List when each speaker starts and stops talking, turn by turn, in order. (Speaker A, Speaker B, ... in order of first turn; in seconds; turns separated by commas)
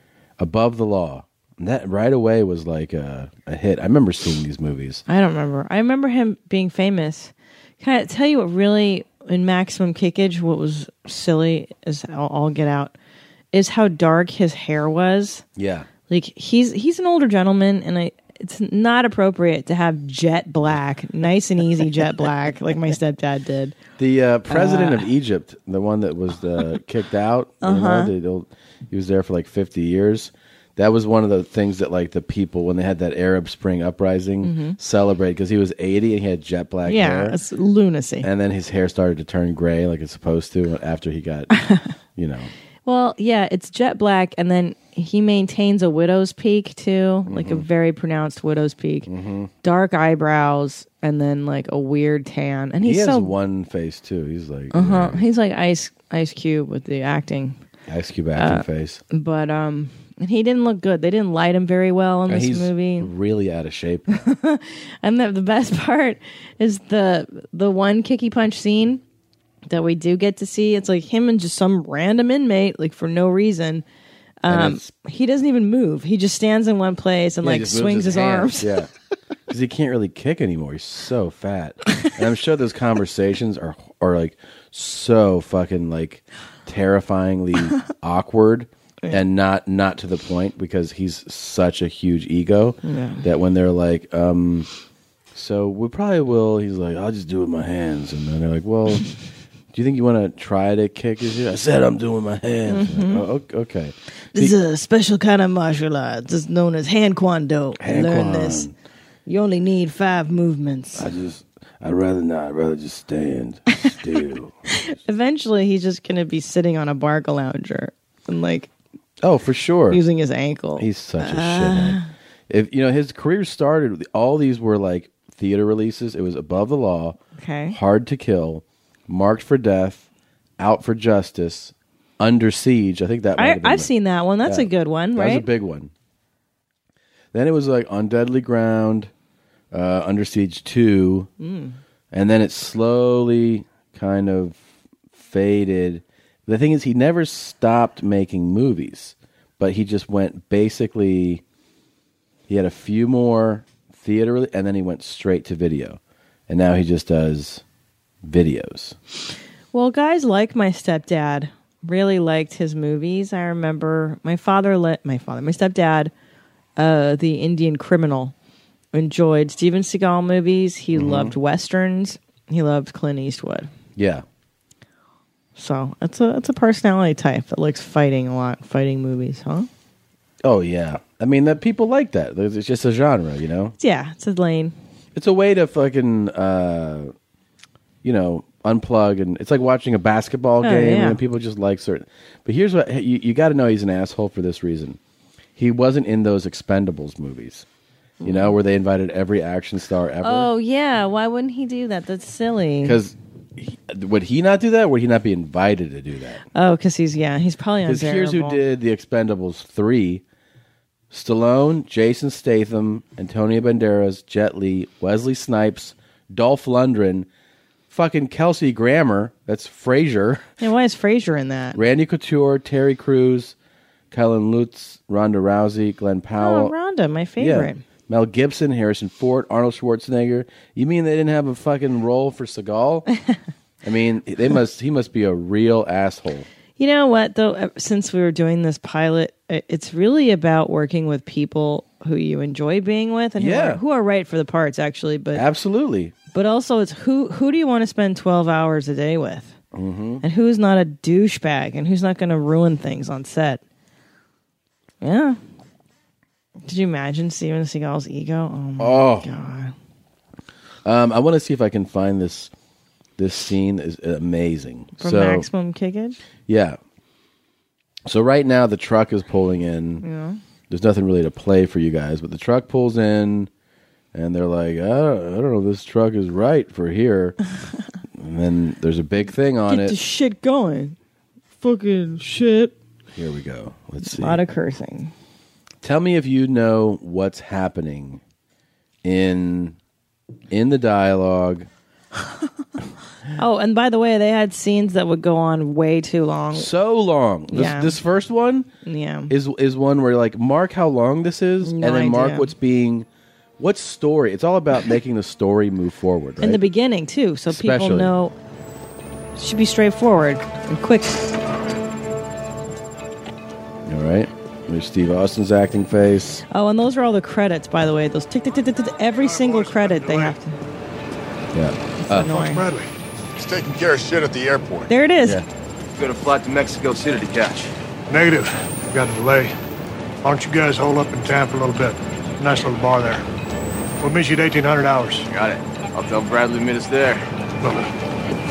Speaker A: 0.4-5.0, Speaker B: 5.1-12.9, Speaker B: 13.5-15.4, Speaker A: 15.6-15.9, Speaker B: 16.1-23.8, Speaker A: 24.0-37.4, Speaker B: 24.5-25.1, Speaker B: 27.6-28.1, Speaker B: 34.4-34.8, Speaker B: 36.9-38.3, Speaker A: 38.2-41.5, Speaker B: 41.5-41.9, Speaker A: 42.1-42.5, Speaker B: 42.9-49.1, Speaker A: 47.3-47.7, Speaker A: 49.1-49.5, Speaker B: 49.6-53.3, Speaker A: 52.8-55.2, Speaker B: 54.7-57.6, Speaker A: 57.9-59.0, Speaker B: 58.4-63.1, Speaker A: 62.3-64.1, Speaker B: 64.1-69.0, Speaker B: 69.7-73.8, Speaker B: 74.4-78.8, Speaker A: 74.5-74.9, Speaker A: 77.4-78.9, Speaker A: 79.5-94.7, Speaker B: 92.8-93.2, Speaker A: 95.3-99.0, Speaker A: 99.7-104.5, Speaker B: 102.7-103.2, Speaker B: 104.3-108.7, Speaker A: 107.8-108.7, Speaker B: 109.3-111.1, Speaker A: 111.0-114.8, Speaker B: 114.7-118.7, Speaker A: 119.2-120.0, Speaker B: 119.9-122.1, Speaker A: 120.8-127.2, Speaker B: 127.4-127.8, Speaker A: 127.7-130.1, Speaker A: 130.6-133.9, Speaker B: 133.4-135.5, Speaker A: 134.4-135.9, Speaker A: 137.3-139.1, Speaker A: 139.7-141.3, Speaker B: 141.4-141.8, Speaker A: 142.1-151.4, Speaker A: 152.5-157.6, Speaker A: 158.2-159.0, Speaker B: 159.7-166.1, Speaker B: 166.8-168.3, Speaker B: 168.9-173.7, Speaker A: 170.9-171.4, Speaker A: 174.0-174.2, Speaker B: 175.6-179.7, Speaker A: 180.4-183.8, Speaker B: 183.8-184.7, Speaker A: 185.2-187.1, Speaker A: 188.0-195.0, Speaker B: 190.6-191.2, Speaker A: 195.6-197.7, Speaker B: 198.2-198.6, Speaker A: 198.2-200.5, Speaker B: 200.2-203.0, Speaker A: 202.8-206.4, Speaker B: 206.5-208.6, Speaker A: 207.8-210.2, Speaker A: 211.1-217.3, Speaker A: 217.9-220.5, Speaker B: 220.6-221.8, Speaker A: 221.7-223.6, Speaker A: 224.1-226.7, Speaker B: 226.4-227.8, Speaker A: 227.4-233.1, Speaker A: 233.8-236.5, Speaker B: 236.8-245.4, Speaker A: 243.4-243.8, Speaker A: 245.3-246.2, Speaker B: 246.3-249.6, Speaker A: 249.7-250.2, Speaker B: 250.2-253.6, Speaker B: 255.0-255.4, Speaker B: 256.6-259.7, Speaker A: 258.8-259.3, Speaker A: 260.9-262.5, Speaker A: 263.2-265.5, Speaker B: 265.0-266.2, Speaker A: 266.5-266.8, Speaker A: 268.1-270.0, Speaker B: 270.0-270.4, Speaker A: 270.7-273.5, Speaker A: 274.1-277.4, Speaker A: 278.2-280.0, Speaker B: 279.7-281.0, Speaker B: 281.6-282.8, Speaker A: 283.1-284.4, Speaker B: 284.0-285.1, Speaker A: 285.8-288.2, Speaker A: 289.0-289.8, Speaker A: 290.5-291.7, Speaker B: 293.4-296.7, Speaker A: 296.5-298.7, Speaker B: 297.5-298.0, Speaker B: 298.8-299.3, Speaker A: 299.3-303.1, Speaker B: 301.6-302.5, Speaker A: 303.6-306.6, Speaker B: 306.4-308.3, Speaker A: 307.5-308.1, Speaker B: 309.4-311.2, Speaker A: 313.9-316.4, Speaker B: 316.5-320.6, Speaker C: 319.2-320.4, Speaker A: 321.5-322.3, Speaker B: 322.0-322.7, Speaker C: 322.2-322.9, Speaker B: 324.9-325.4, Speaker D: 326.0-327.7, Speaker C: 328.1-329.5, Speaker C: 330.2-333.2, Speaker C: 334.0-335.3, Speaker D: 335.4-337.2, Speaker C: 337.6-337.9